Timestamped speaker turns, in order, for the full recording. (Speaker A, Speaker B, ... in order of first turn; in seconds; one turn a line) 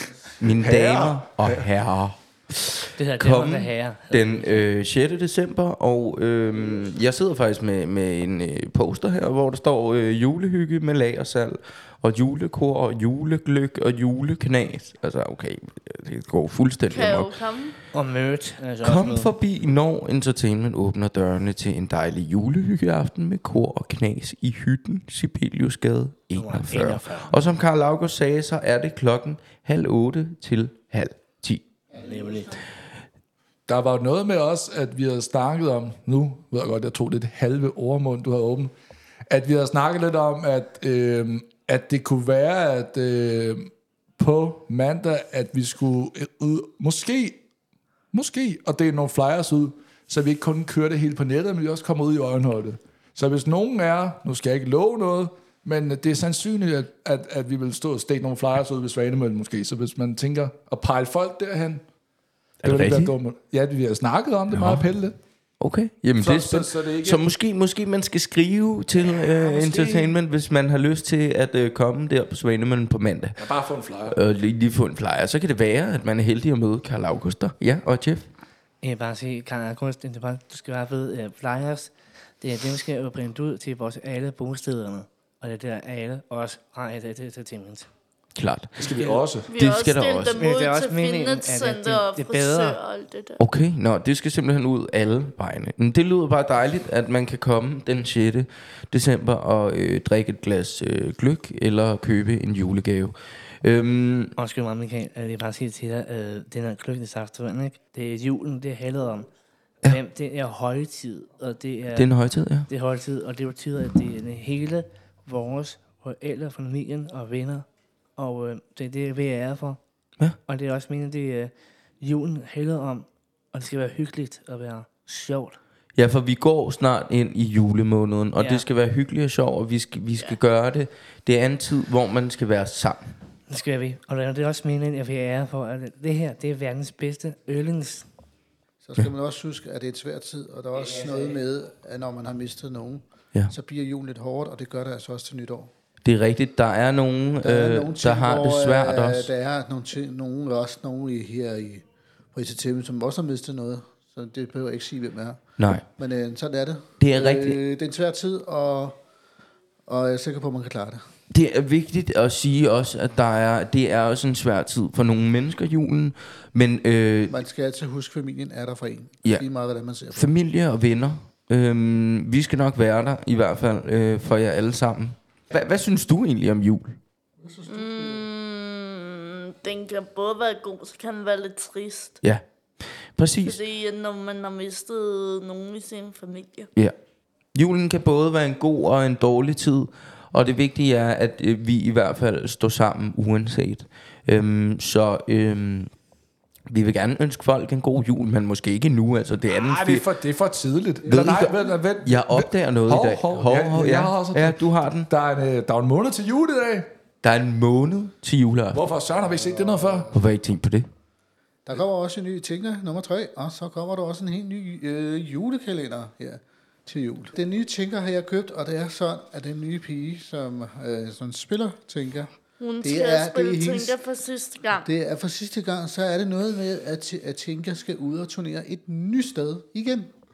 Speaker A: 0.4-17.4
Speaker B: 0.4-1.7
Speaker C: 3.0-4.6
Speaker D: 16.9-17.8
Speaker C: 17.9-19.3
Speaker A: 18.8-31.6
Speaker C: 26.3-27.4
Speaker E: 31.9-32.6
Speaker C: 31.9-32.6
Speaker B: 33.7-38.7
Speaker B: 39.3-47.4
Speaker B: 48.1-61.8
Speaker A: 62.6-63.1
Speaker B: 62.6-65.2
Speaker A: 64.5-64.8
Speaker A: 65.6-73.4
Speaker B: 66.2-67.2
Speaker B: 69.0-70.2
Speaker B: 73.4-74.2
Speaker A: 74.0-78.3
Speaker C: 78.8-87.9
Speaker A: 88.3-88.8
Speaker B: 88.8-89.5
Speaker C: 88.8-89.2
Speaker A: 89.5-90.4
Speaker D: 89.5-93.4
Speaker C: 90.4-92.8
Speaker A: 93.4-104.3
Speaker C: 104.4-109.3
Speaker C: 109.8-112.1
Speaker A: 112.0-112.7
Speaker C: 112.7-117.7
Speaker C: 118.2-119.8
Speaker C: 120.5-125.6
Speaker A: 125.9-133.1
Speaker C: 128.3-128.6
Speaker C: 133.5-138.1
Speaker E: 138.8-145.7
Speaker C: 140.9-141.3
Speaker A: 146.0-149.3
Speaker E: 147.4-158.9
Speaker A: 155.6-155.8
Speaker A: 157.0-157.6
Speaker E: 159.9-161.1
Speaker A: 161.3-167.3
Speaker E: 167.3-170.3
Speaker A: 170.1-177.0
Speaker E: 177.4-178.3
Speaker D: 177.7-182.2
Speaker A: 182.2-183.6
Speaker D: 183.4-186.7
Speaker A: 187.5-195.9
Speaker A: 196.7-200.0
Speaker B: 199.5-206.9
Speaker E: 201.0-201.5
Speaker A: 201.1-205.1
Speaker A: 207.2-208.8
Speaker B: 208.7-210.1
Speaker E: 209.2-210.2
Speaker A: 210.1-210.8
Speaker E: 211.7-223.9
Speaker D: 222.6-224.9
Speaker E: 224.8-230.2